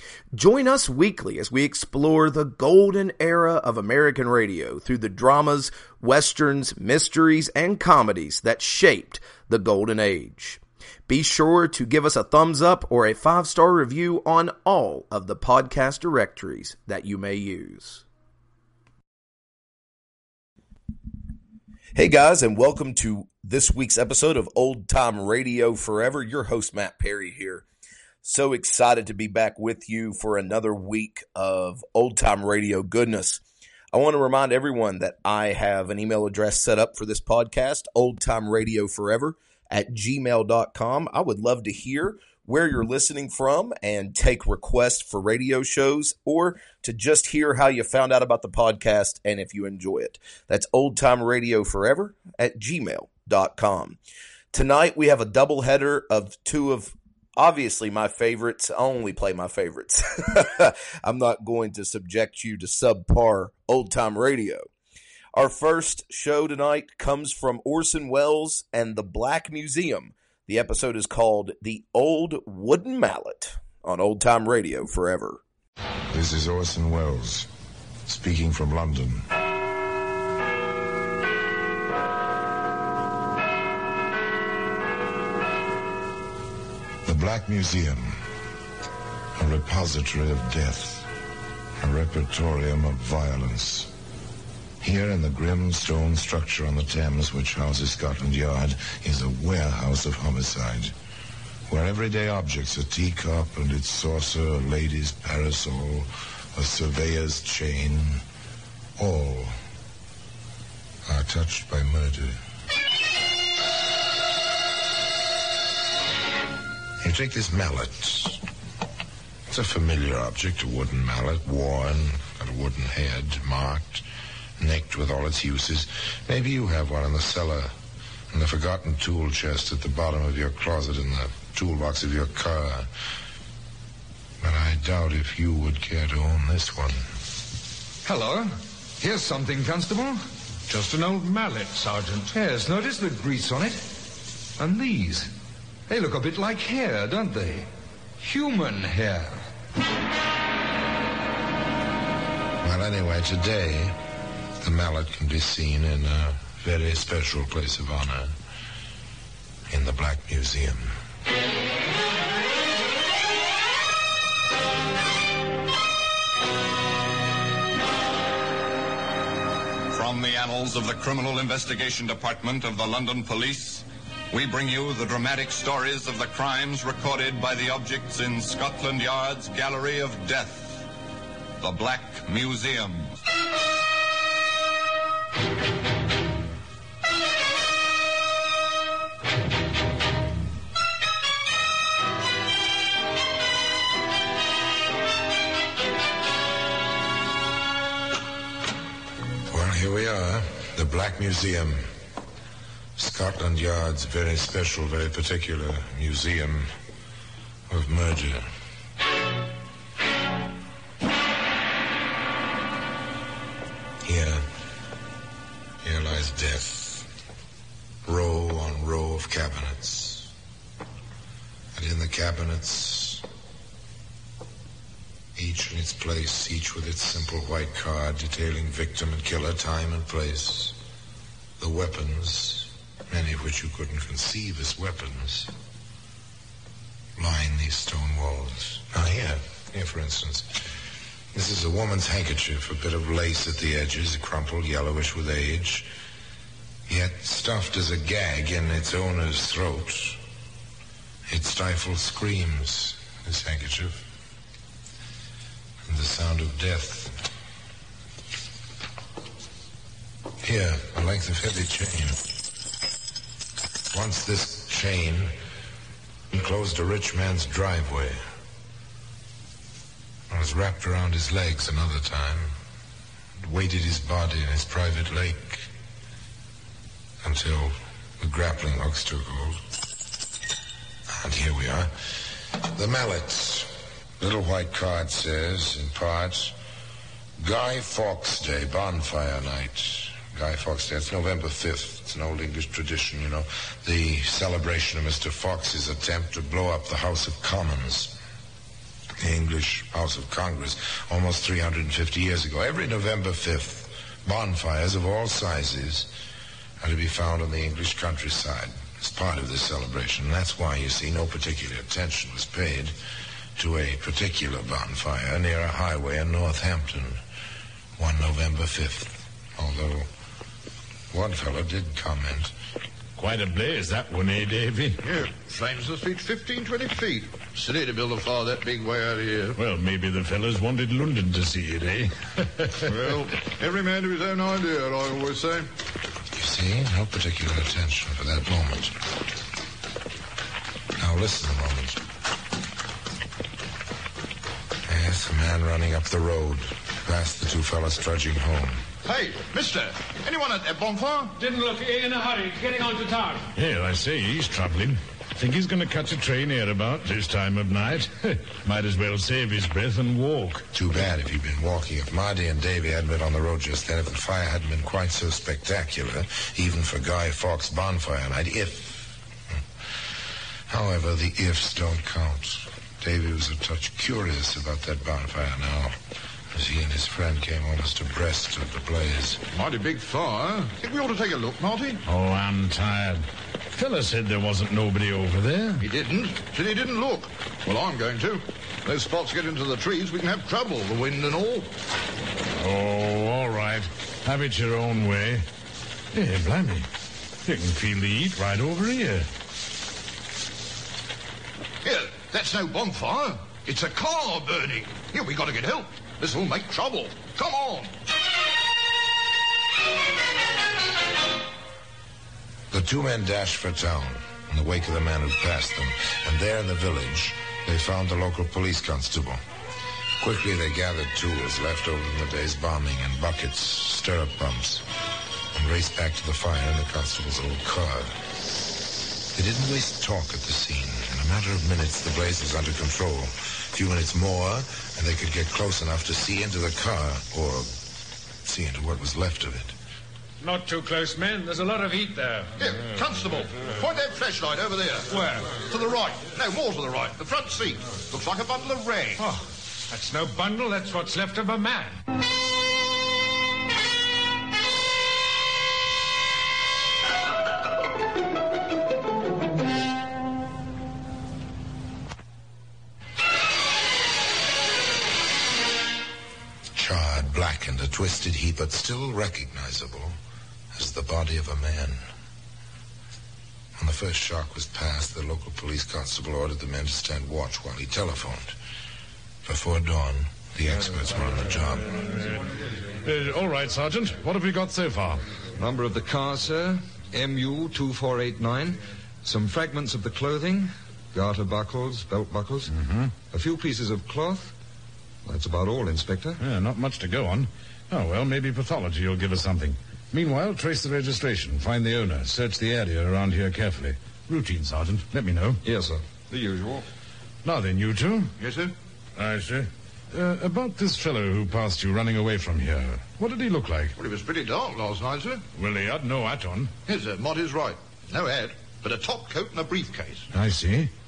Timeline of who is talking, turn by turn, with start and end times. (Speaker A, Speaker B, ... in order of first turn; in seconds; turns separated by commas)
Speaker A: 0.3-18.0, Speaker A: 21.9-27.6, Speaker A: 28.2-54.0, Speaker A: 54.5-64.7, Speaker A: 65.3-75.4, Speaker B: 76.1-77.5, Speaker B: 78.1-79.3, Speaker B: 87.0-88.2, Speaker B: 89.4-91.1, Speaker B: 91.8-93.9, Speaker B: 94.8-100.9, Speaker B: 101.7-108.2, Speaker B: 109.0-109.6, Speaker B: 111.1-112.4, Speaker B: 117.0-118.4, Speaker B: 119.5-124.0, Speaker B: 124.6-127.7, Speaker B: 128.3-132.9, Speaker B: 134.4-137.1, Speaker C: 138.0-140.2, Speaker D: 140.7-142.3, Speaker C: 142.3-144.0, Speaker C: 144.6-145.3, Speaker C: 145.9-147.7, Speaker C: 148.2-149.5, Speaker B: 152.6-154.0, Speaker B: 154.6-158.3, Speaker B: 159.7-160.9, Speaker E: 169.9-180.8, Speaker E: 181.6-183.2, Speaker B: 199.5-201.9, Speaker B: 203.0-206.7, Speaker B: 207.7-208.5, Speaker B: 214.0-214.4, Speaker B: 215.8-217.1, Speaker B: 218.1-220.3, Speaker B: 221.8-223.2, Speaker B: 225.3-230.8, Speaker B: 231.6-235.5, Speaker B: 237.2-240.6, Speaker B: 241.3-245.9, Speaker B: 246.9-250.2, Speaker B: 251.3-254.0, Speaker B: 255.9-257.1, Speaker B: 260.4-262.4, Speaker B: 263.9-265.4, Speaker B: 266.3-268.2, Speaker B: 270.3-272.5, Speaker B: 273.4-275.7, Speaker B: 277.2-279.6, Speaker B: 281.1-281.9, Speaker B: 282.6-286.6, Speaker B: 287.4-298.2, Speaker B: 299.2-306.1, Speaker B: 306.8-312.9, Speaker B: 313.6-317.2, Speaker B: 318.0-320.1, Speaker B: 321.1-322.5, Speaker F: 323.2-325.0, Speaker G: 325.0-329.6, Speaker F: 329.6-332.9, Speaker G: 332.9-335.7, Speaker B: 336.3-339.0, Speaker B: 341.0-342.0, Speaker B: 344.9-348.9, Speaker G: 349.1-351.3, Speaker D: 351.4-353.5, Speaker F: 353.6-360.7, Speaker B: 360.7-369.2, Speaker B: 370.7-376.0, Speaker B: 376.5-379.4, Speaker G: 379.5-382.0, Speaker F: 382.1-385.9, Speaker G: 385.8-391.7, Speaker F: 392.5-395.5, Speaker F: 396.1-396.9, Speaker F: 397.4-399.3, Speaker G: 401.8-407.9, Speaker B: 412.7-419.4, Speaker B: 420.2-424.9, Speaker B: 425.5-428.2, Speaker B: 429.3-437.7, Speaker B: 438.4-439.8, Speaker D: 440.4-442.6, Speaker G: 442.6-449.2, Speaker D: 445.1-445.6, Speaker D: 449.2-452.0, Speaker B: 466.8-470.2, Speaker B: 470.7-472.1, Speaker B: 473.8-478.6, Speaker B: 479.4-482.0, Speaker F: 483.0-485.2, Speaker C: 485.6-492.7, Speaker F: 492.7-493.1, Speaker C: 493.3-494.5, Speaker C: 495.3-496.4, Speaker F: 496.4-505.6, Speaker C: 505.6-506.9, Speaker F: 507.4-508.4, Speaker G: 508.4-508.7, Speaker F: 509.2-514.0, Speaker G: 514.0-515.4, Speaker F: 515.5-516.7, Speaker G: 516.9-520.3, Speaker F: 520.3-520.9